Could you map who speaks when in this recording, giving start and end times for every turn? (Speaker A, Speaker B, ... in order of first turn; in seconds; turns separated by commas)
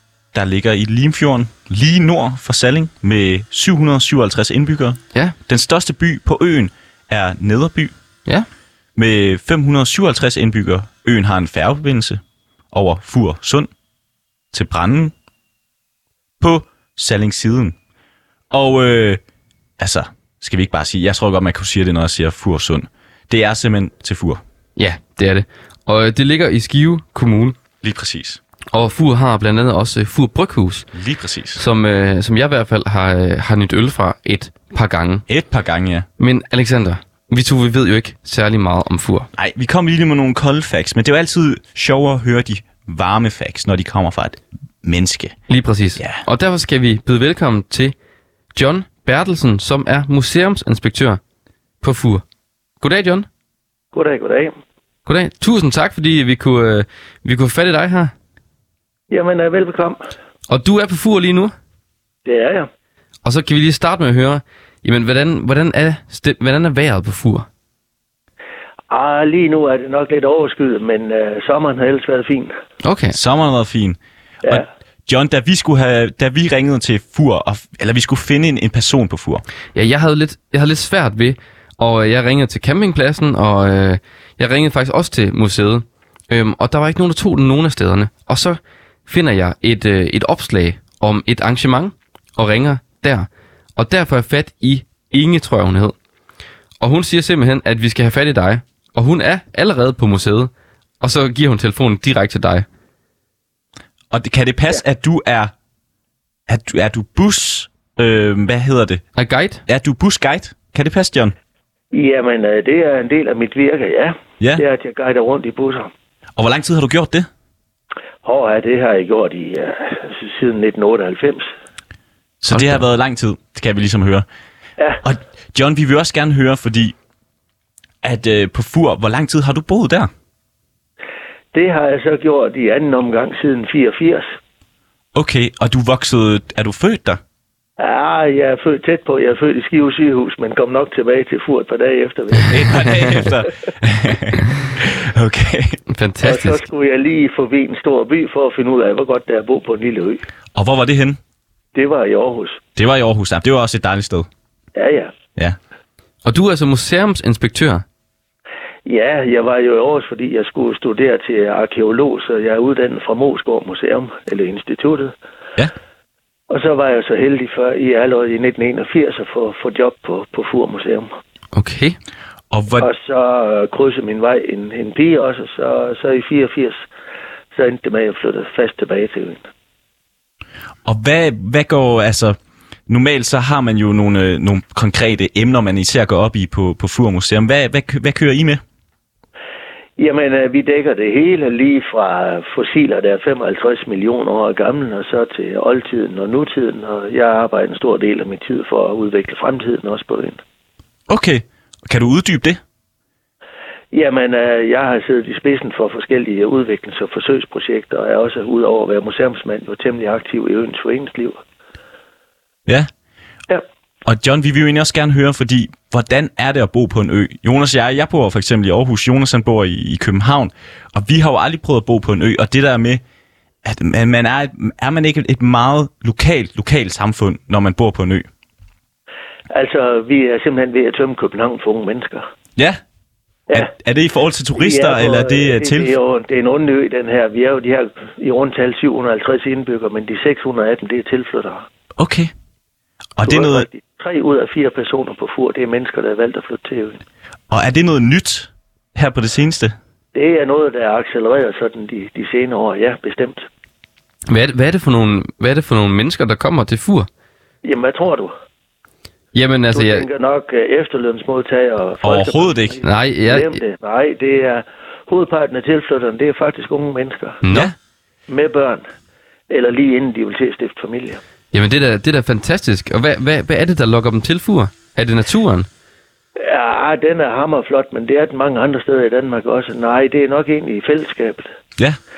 Speaker A: 0.3-7.9, Speaker A: 8.9-12.2, Speaker A: 12.7-13.7, Speaker A: 14.5-15.1, Speaker A: 16.4-17.7, Speaker A: 18.5-19.2, Speaker A: 19.8-24.4, Speaker B: 24.8-27.6, Speaker A: 27.8-28.4, Speaker B: 28.7-30.9, Speaker A: 30.9-31.6, Speaker B: 31.6-35.2, Speaker A: 35.3-36.1, Speaker B: 36.2-39.3, Speaker A: 39.4-45.4, Speaker B: 45.5-47.9, Speaker A: 46.0-46.2, Speaker B: 48.5-51.2, Speaker B: 51.8-52.2, Speaker B: 52.8-53.3, Speaker C: 53.9-54.5, Speaker B: 55.0-58.1, Speaker C: 59.1-60.0, Speaker B: 60.5-61.5, Speaker C: 62.2-62.7, Speaker B: 63.2-67.5, Speaker C: 68.9-72.5, Speaker B: 72.8-73.2, Speaker A: 73.1-79.4, Speaker B: 79.7-95.9, Speaker B: 96.8-102.7, Speaker A: 104.1-105.5, Speaker A: 106.5-109.0, Speaker B: 109.2-109.6, Speaker A: 109.7-111.3, Speaker C: 111.9-115.9, Speaker A: 116.4-117.3, Speaker C: 118.2-121.5, Speaker A: 122.4-124.2, Speaker B: 122.5-122.8, Speaker A: 125.0-126.9, Speaker A: 128.0-130.1, Speaker C: 131.5-134.4, Speaker A: 135.1-137.2, Speaker C: 137.8-143.2, Speaker A: 142.5-145.8, Speaker B: 145.9-146.6, Speaker C: 146.2-150.2, Speaker A: 150.5-151.2, Speaker C: 151.7-152.6, Speaker A: 152.8-154.3, Speaker C: 154.8-155.1, Speaker B: 156.2-157.8, Speaker C: 158.8-165.1, Speaker C: 166.5-171.1, Speaker B: 171.5-172.0, Speaker A: 172.5-172.9, Speaker C: 172.8-176.8, Speaker C: 177.5-179.4, Speaker A: 180.8-182.4, Speaker A: 182.9-188.6, Speaker C: 190.0-200.4, Speaker A: 201.1-202.6, Speaker C: 203.9-211.4, Speaker A: 214.0-223.0, Speaker A: 223.6-228.2, Speaker C: 229.5-232.3, Speaker A: 233.5-235.9, Speaker C: 234.6-241.7, Speaker A: 242.0-242.3, Speaker A: 243.2-243.7, Speaker C: 243.2-247.0, Speaker A: 247.5-249.8, Speaker C: 250.1-253.5, Speaker B: 254.3-257.1, Speaker C: 257.6-258.3, Speaker B: 259.3-260.1, Speaker C: 259.7-267.4, Speaker A: 262.0-262.8, Speaker B: 262.8-263.6, Speaker B: 267.4-267.7, Speaker C: 268.3-268.9, Speaker C: 269.5-271.2, Speaker B: 271.5-275.7, Speaker C: 276.4-281.5